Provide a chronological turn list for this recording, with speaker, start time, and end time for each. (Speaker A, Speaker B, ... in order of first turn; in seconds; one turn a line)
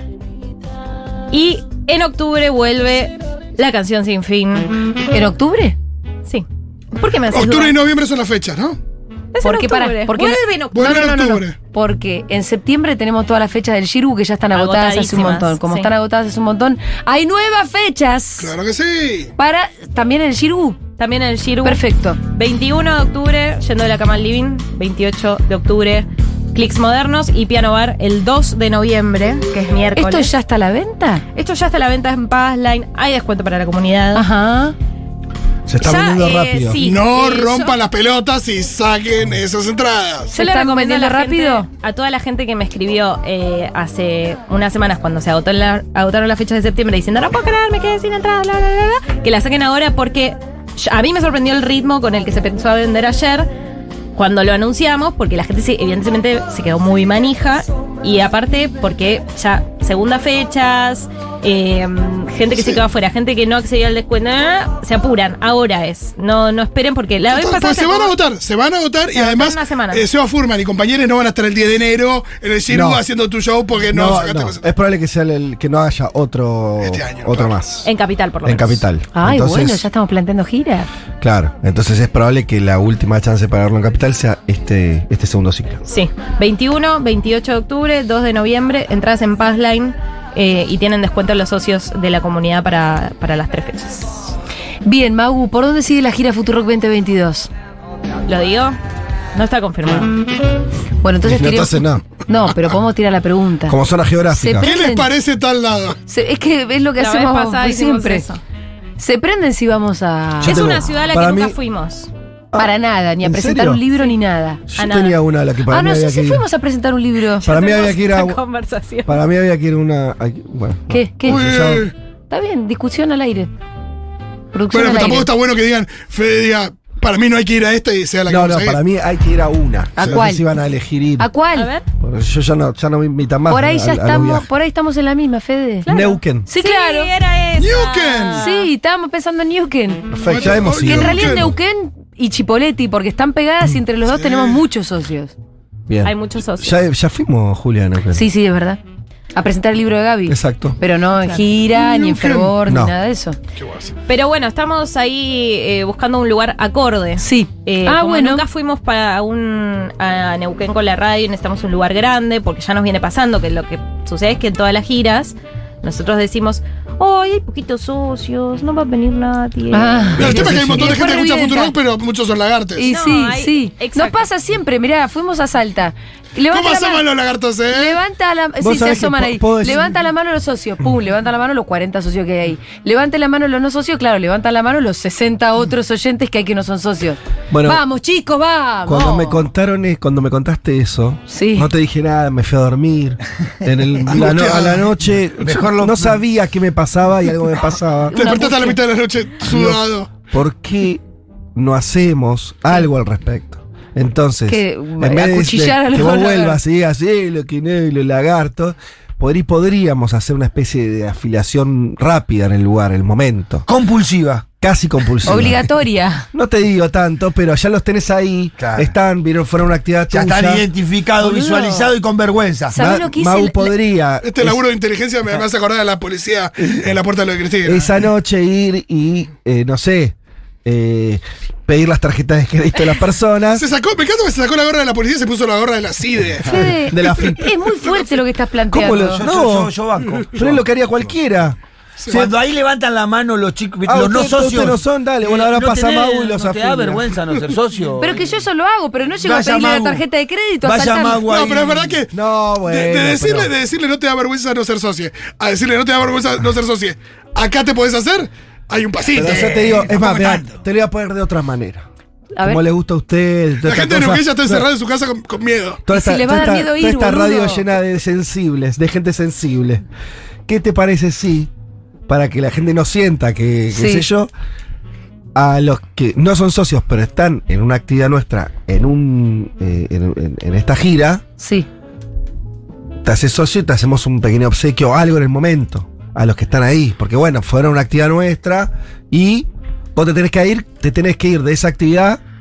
Speaker A: 1.3-4.7
Speaker B: 5.1-5.8
Speaker A: 6.2-7.8
Speaker C: 7.3-8.8
Speaker A: 9.3-10.9
Speaker B: 9.4-18.5
Speaker C: 10.7-11.6
Speaker A: 14.5-15.9
Speaker C: 18.4-19.3
Speaker B: 19.4-20.8
Speaker A: 21.0-30.3
Speaker B: 21.6-22.2
Speaker B: 29.9-31.2
Speaker A: 31.3-34.2
Speaker B: 34.1-34.8
Speaker D: 35.7-36.8
Speaker A: 35.8-37.8
Speaker C: 36.8-40.3
Speaker B: 40.3-41.7
Speaker A: 40.3-53.5
Speaker A: 54.1-68.1
Speaker C: 62.5-62.8
Speaker C: 67.3-74.7
Speaker A: 69.1-70.0
Speaker D: 72.7-73.0
Speaker D: 73.9-77.9
Speaker C: 76.8-77.6
Speaker A: 77.8-78.8
Speaker D: 78.4-79.9
Speaker B: 79.1-80.9
Speaker D: 81.2-85.8
Speaker A: 85.9-94.3
Speaker B: 94.8-97.5
Speaker A: 98.3-98.8
Speaker A: 99.3-100.1
Speaker B: 101.0-103.8
Speaker D: 101.2-102.0
Speaker D: 103.7-104.7
Speaker B: 104.3-105.1
Speaker C: 104.6-106.0
Speaker B: 106.1-108.2
Speaker A: 107.0-108.4
Speaker B: 109.0-110.8
Speaker D: 110.4-111.5
Speaker A: 110.4-112.1
Speaker B: 112.5-114.6
Speaker D: 113.2-113.8
Speaker D: 114.7-116.4
Speaker A: 114.8-115.2
Speaker B: 115.7-117.5
Speaker A: 117.4-119.2
Speaker D: 117.4-118.4
Speaker D: 119.1-121.9
Speaker B: 120.9-121.5
Speaker C: 121.3-121.9
Speaker B: 122.3-123.5
Speaker B: 124.5-125.3
Speaker C: 124.7-128.8
Speaker D: 128.3-131.3
Speaker B: 129.9-130.4
Speaker B: 131.2-131.7
Speaker A: 131.5-131.8
Speaker D: 132.0-134.5
Speaker B: 133.5-135.9
Speaker A: 135.8-138.7
Speaker D: 135.9-136.4
Speaker B: 136.5-137.1
Speaker C: 137.6-138.4
Speaker B: 138.3-145.3
Speaker D: 140.1-141.5
Speaker C: 140.2-141.5
Speaker C: 144.1-144.6
Speaker D: 145.9-148.2
Speaker A: 146.0-146.8
Speaker B: 148.1-148.8
Speaker B: 149.3-153.4
Speaker D: 150.3-150.8
Speaker C: 151.7-152.5
Speaker D: 152.7-152.9
Speaker C: 153.6-153.9
Speaker A: 154.1-170.2
Speaker B: 157.2-158.4
Speaker B: 169.7-171.7
Speaker C: 170.2-172.9
Speaker D: 170.2-171.0
Speaker B: 172.8-177.1
Speaker A: 172.9-174.2
Speaker C: 176.5-178.0
Speaker B: 177.7-189.4
Speaker D: 178.6-179.9
Speaker D: 187.5-187.8
Speaker D: 188.8-198.1
Speaker B: 191.3-191.7
Speaker C: 194.1-194.9
Speaker E: 195.4-196.2
Speaker B: 198.1-198.8
Speaker C: 198.1-200.1
Speaker D: 199.4-201.0
Speaker D: 201.5-213.6
Speaker B: 204.5-206.6
Speaker E: 213.7-214.4
Speaker D: 214.6-215.6
Speaker B: 215.2-216.3
Speaker D: 216.3-220.6
Speaker E: 218.6-218.9
Speaker E: 220.1-222.8
Speaker B: 221.2-221.9
Speaker B: 222.7-223.8
Speaker D: 222.7-224.6
Speaker C: 224.2-228.0
Speaker D: 227.6-233.6
Speaker C: 233.5-238.1
Speaker B: 236.4-239.2
Speaker D: 236.5-237.4
Speaker D: 238.7-239.7
Speaker E: 239.2-240.6
Speaker D: 240.3-241.6
Speaker E: 242.1-248.3
Speaker D: 243.9-247.1
Speaker B: 248.0-251.3
Speaker E: 249.2-250.0
Speaker E: 250.6-252.0
Speaker C: 251.2-259.6
Speaker D: 252.1-253.5
Speaker D: 259.1-261.9
Speaker E: 259.2-260.6
Speaker B: 262.3-262.6
Speaker D: 262.4-264.7
Speaker C: 263.6-265.8
Speaker D: 265.9-269.8
Speaker B: 265.9-267.7
Speaker D: 270.4-271.5
Speaker D: 272.1-274.3
Speaker B: 273.7-274.1
Speaker D: 275.3-281.2
Speaker B: 281.4-281.7
Speaker D: 283.0-292.2